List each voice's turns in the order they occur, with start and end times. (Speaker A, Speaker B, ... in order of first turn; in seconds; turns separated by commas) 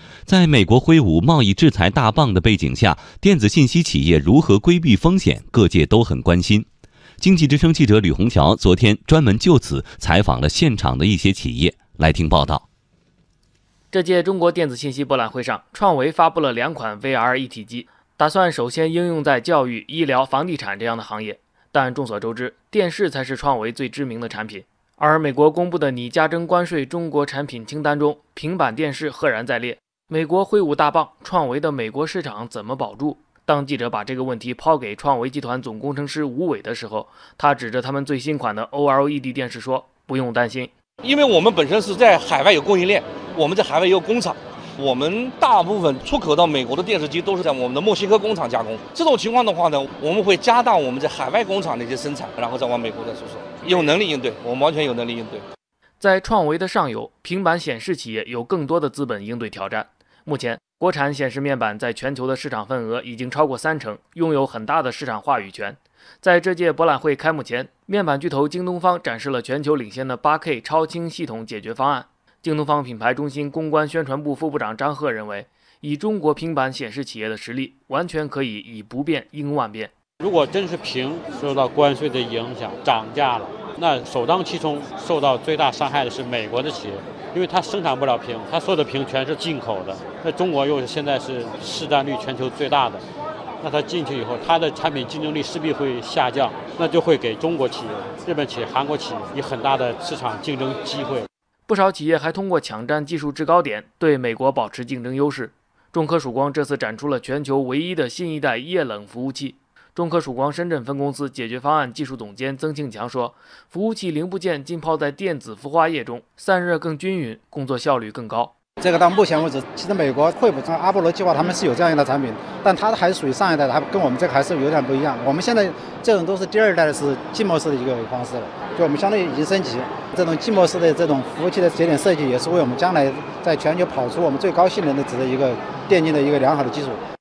Speaker A: 0.3-6.7, Speaker A: 7.2-12.6, Speaker B: 13.9-40.7, Speaker C: 41.0-55.4, Speaker B: 56.0-79.9, Speaker D: 80.2-93.0, Speaker D: 93.6-101.3, Speaker B: 101.7-118.5, Speaker E: 118.8-137.0